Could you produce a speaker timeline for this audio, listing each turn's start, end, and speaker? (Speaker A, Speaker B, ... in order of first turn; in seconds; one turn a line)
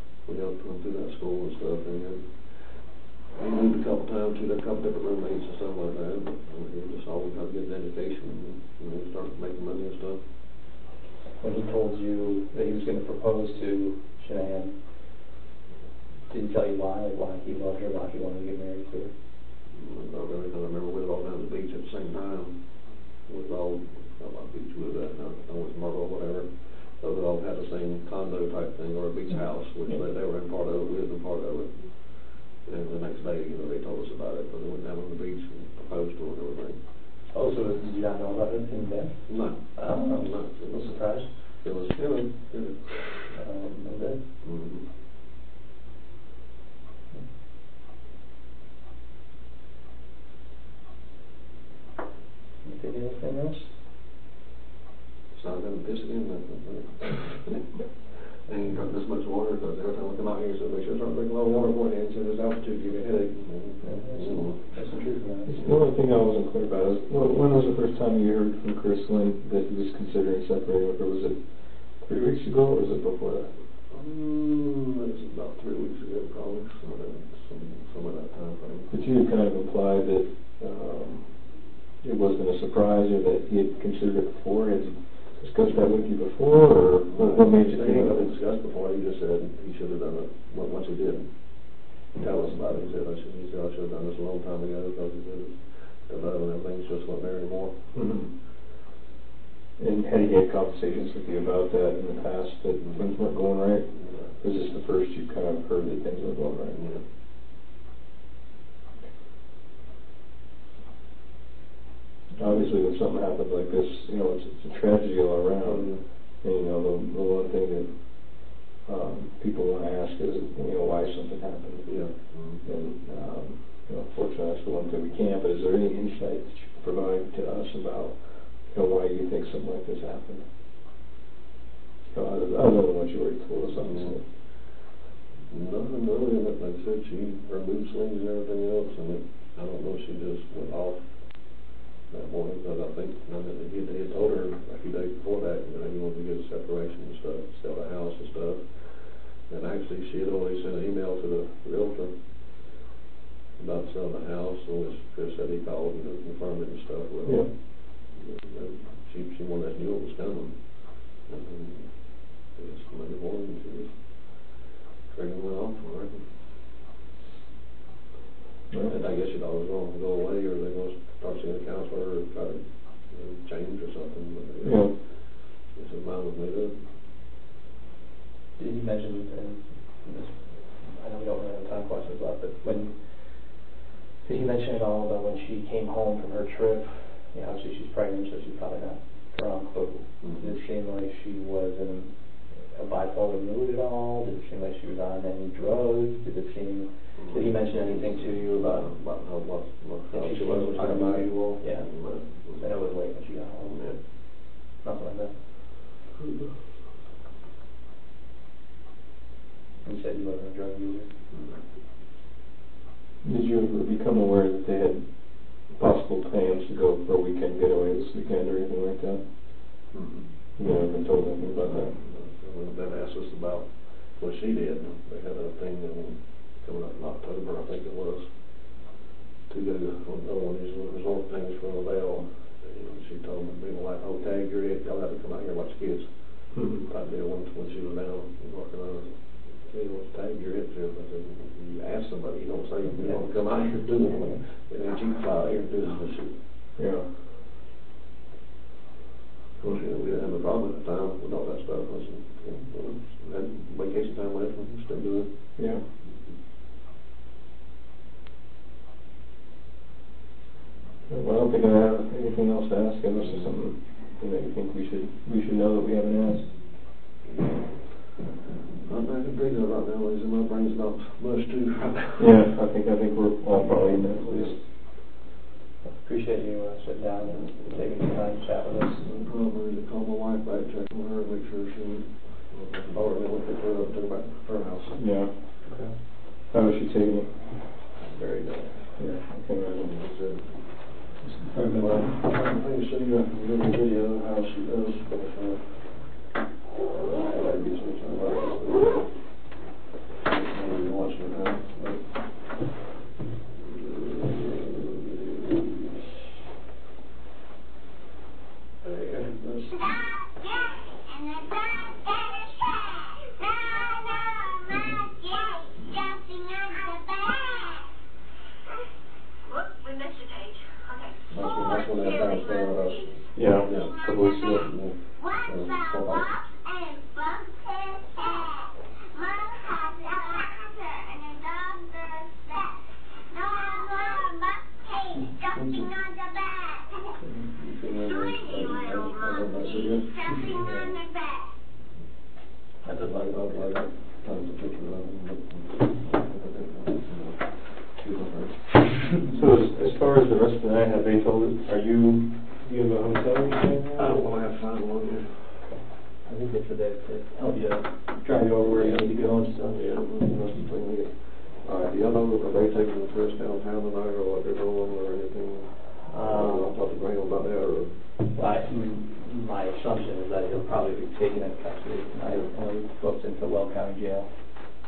Speaker A: 0.2-2.8
Speaker A: 3.3-10.2
Speaker B: 11.4-14.8
Speaker B: 16.3-19.1
Speaker A: 19.7-22.6
Speaker A: 23.3-36.8
Speaker B: 37.3-41.3
Speaker A: 39.3-43.4
Speaker B: 43.3-44.2
Speaker A: 44.4-44.9
Speaker B: 52.6-53.7
Speaker A: 55.3-57.7
Speaker A: 58.4-64.6
Speaker B: 63.8-65.5
Speaker C: 65.5-73.6
Speaker A: 73.9-78.9
Speaker C: 78.9-81.5
Speaker C: 82.0-88.2
Speaker A: 87.1-91.3
Speaker A: 92.1-97.8
Speaker C: 97.9-98.3
Speaker C: 99.8-106.8
Speaker A: 106.7-107.0
Speaker C: 112.3-130.5
Speaker A: 115.7-116.0
Speaker A: 121.9-122.6
Speaker C: 132.1-134.2
Speaker A: 133.8-134.1
Speaker A: 135.5-141.1
Speaker A: 142.1-152.2
Speaker A: 153.6-157.5
Speaker A: 158.0-164.0
Speaker A: 165.1-166.3
Speaker A: 168.9-176.8
Speaker C: 174.6-174.9
Speaker B: 178.6-183.6
Speaker B: 184.2-198.9
Speaker A: 190.2-190.5
Speaker A: 197.2-202.6
Speaker B: 200.1-203.9
Speaker A: 203.6-204.0
Speaker B: 204.8-205.4
Speaker B: 209.8-211.1
Speaker A: 211.3-211.6
Speaker C: 213.2-219.2
Speaker A: 219.9-220.3
Speaker C: 220.6-221.9
Speaker A: 221.6-228.3
Speaker A: 229.5-246.4
Speaker C: 236.5-236.9
Speaker C: 246.8-247.1
Speaker A: 249.6-255.3
Speaker C: 255.6-255.9
Speaker C: 261.1-266.5
Speaker A: 267.3-268.0
Speaker A: 268.8-272.3
Speaker C: 272.2-274.6
Speaker B: 275.9-279.1
Speaker A: 279.1-285.0
Speaker C: 285.0-285.8
Speaker B: 285.7-285.9
Speaker C: 286.4-287.5
Speaker A: 288.0-289.0
Speaker C: 289.0-289.9
Speaker A: 289.8-290.6
Speaker C: 291.2-292.2
Speaker A: 291.7-296.1
Speaker A: 296.8-299.1
Speaker A: 300.2-302.0
Speaker A: 303.6-306.1
Speaker A: 308.8-309.9
Speaker D: 309.6-317.9
Speaker D: 319.4-323.0
Speaker A: 321.3-326.4
Speaker C: 323.4-324.7
Speaker D: 323.8-324.5
Speaker D: 325.2-337.2
Speaker A: 335.6-335.8
Speaker A: 337.5-340.3
Speaker D: 338.1-341.5
Speaker B: 340.6-340.9
Speaker B: 342.8-343.9
Speaker A: 343.0-349.0
Speaker C: 349.2-354.1
Speaker A: 354.0-355.7
Speaker B: 356.2-359.8
Speaker A: 359.7-368.0
Speaker B: 366.1-366.8
Speaker B: 368.3-374.3